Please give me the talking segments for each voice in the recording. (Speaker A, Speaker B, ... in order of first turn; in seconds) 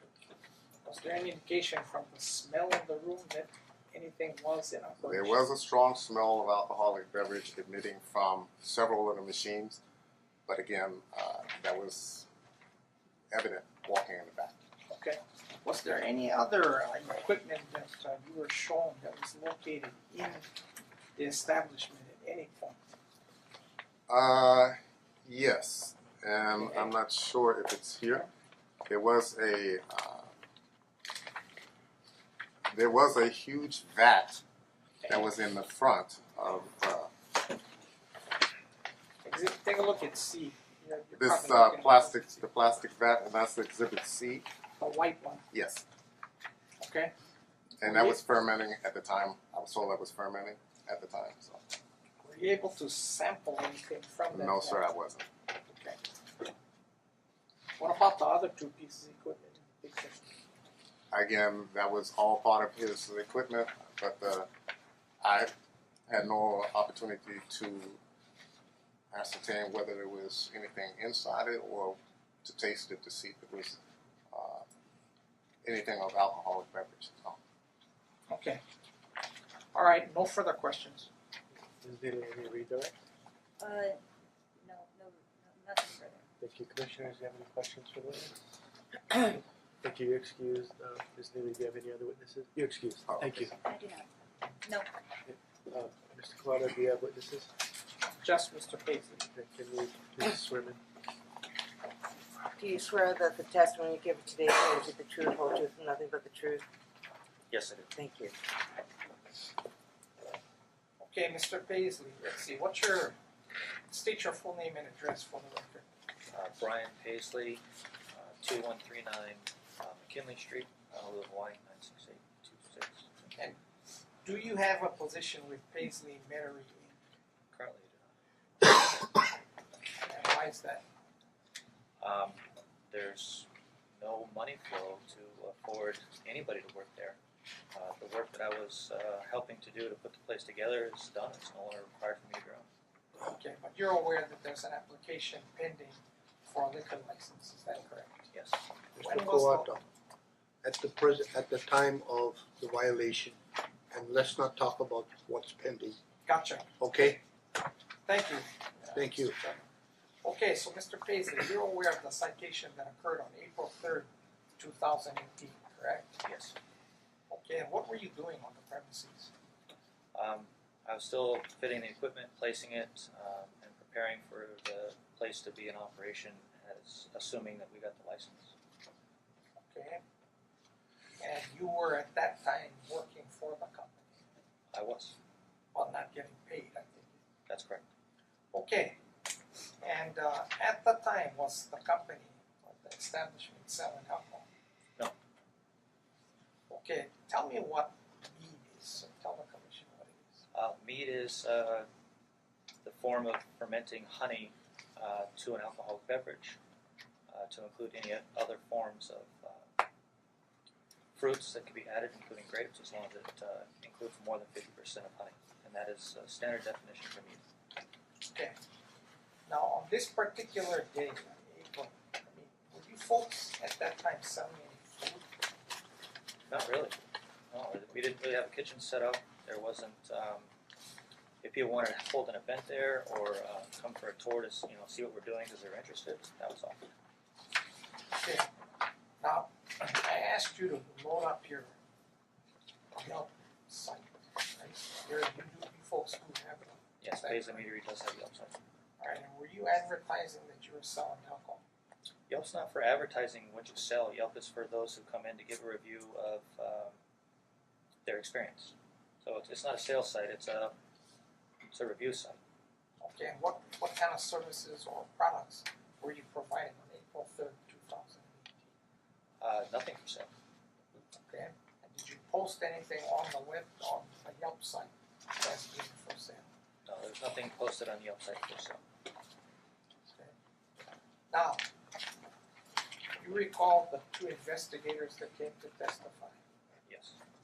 Speaker A: 0.8-5.4, 14.9-20.5, 21.2-22.8, 39.2-42.3, 44.8-45.4, 46.8-47.1, 52.2-54.9, 55.7-56.0, 57.8-60.2, 78.3-78.6, 79.7-81.1, 98.0-99.2, 111.0-113.2, 113.9-115.8, 124.2-127.0, 130.0-130.8, 143.2-148.3, 149.0-149.7, 156.3-156.7, 158.1-159.7, 160.2-166.2, 167.3-169.3, 179.7-180.0, 181.2-184.0, 185.7-187.2, 188.5-189.0, 189.8-194.4, 196.7-200.4, 218.3-218.6, 219.5-225.3, 238.2-238.5, 239.2-241.7, 242.9-247.5, 249.0-251.6, 263.0-268.7, 271.2-276.5, 280.0-280.3, 281.3-281.6, 283.2-286.4
Speaker B: 5.0-9.8, 10.5-12.3, 13.3-14.5, 24.1-28.3, 28.9-30.3, 32.7-34.4, 35.1-37.1, 41.2-44.5, 45.5-45.8, 47.8-51.6, 54.3-55.3, 61.1-64.5, 65.2-65.5, 66.1-68.0, 69.1-73.8, 74.3-74.6, 75.6-77.4, 93.0-93.5
Speaker C: 81.8-82.9, 86.4-88.4, 89.1-93.6, 95.2-97.5, 99.2-100.8
Speaker D: 83.6-84.0, 84.6-86.2, 93.6-94.1, 94.6-94.9
Speaker E: 102.5-106.6, 107.9-108.3
Speaker F: 107.5-107.9, 116.3-123.1, 127.5-128.1, 132.0-137.2, 137.7-142.7, 148.3-148.6, 166.2-166.5, 170.1-178.5, 184.7-185.2, 187.5-187.8, 200.5-201.9, 202.8-206.6, 207.3-209.7, 211.2-217.4, 226.4-227.0, 227.5-230.5, 231.4-236.9, 247.0-248.6, 252.3-257.0, 258.0-260.7, 261.6-262.4, 269.4-270.3, 276.9-278.8, 286.9-287.2
Speaker G: 148.9-149.8, 150.6-153.4, 153.9-156.0, 156.8-157.2, 158.9-159.4